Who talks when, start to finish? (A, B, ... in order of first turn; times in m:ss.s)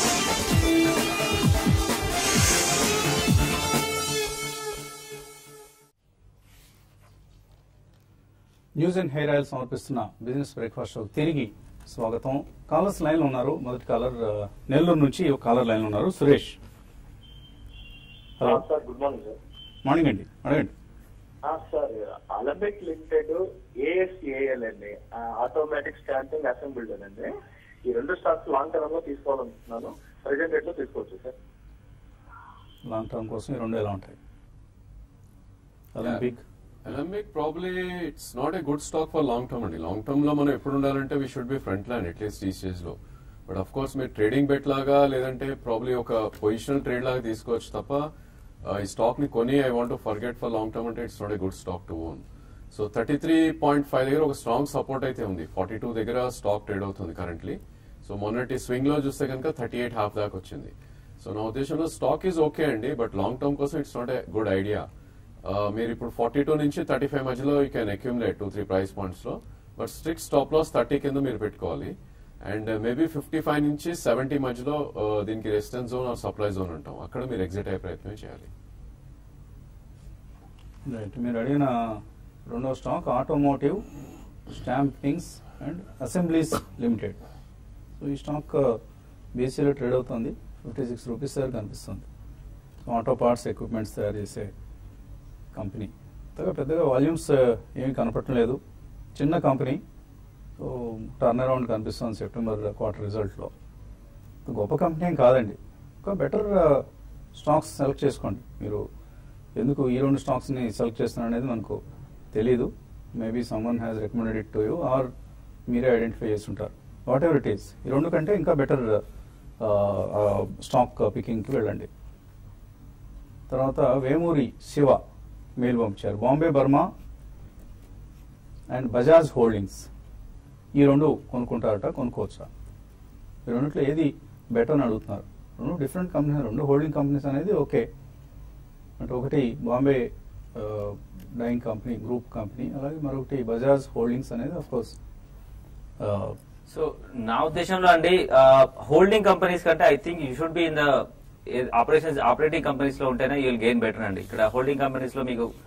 0:08.8-0:16.6 A
0:18.4-0:19.4 B
0:19.8-0:20.7 A
0:21.4-0:27.3 B
0:27.8-0:31.3 B
0:32.8-0:34.2 A
0:35.9-0:36.4 A
0:36.8-0:43.0 C
0:43.5-0:48.1 C
0:48.6-1:04.9 C
1:05.4-1:18.5 C
1:20.8-1:23.8 A
1:24.5-1:27.2 A
1:28.0-1:28.8 A
1:29.3-1:32.0 A
1:32.8-1:34.5 A
1:35.5-1:38.6 A
1:39.1-1:39.8 A
1:40.6-1:43.5 A
1:44.4-1:48.9 A
1:49.6-1:51.8 A
1:52.3-1:55.1 A
1:55.7-1:59.0 A
1:59.6-2:01.9 A
2:03.5-2:05.0 A
2:05.6-2:06.9 A
2:08.7-2:09.9 A
2:10.7-2:12.5 A
2:13.4-2:17.8 A
2:19.0-2:25.0 A
2:26.0-2:26.4 A
2:26.7-2:35.5 D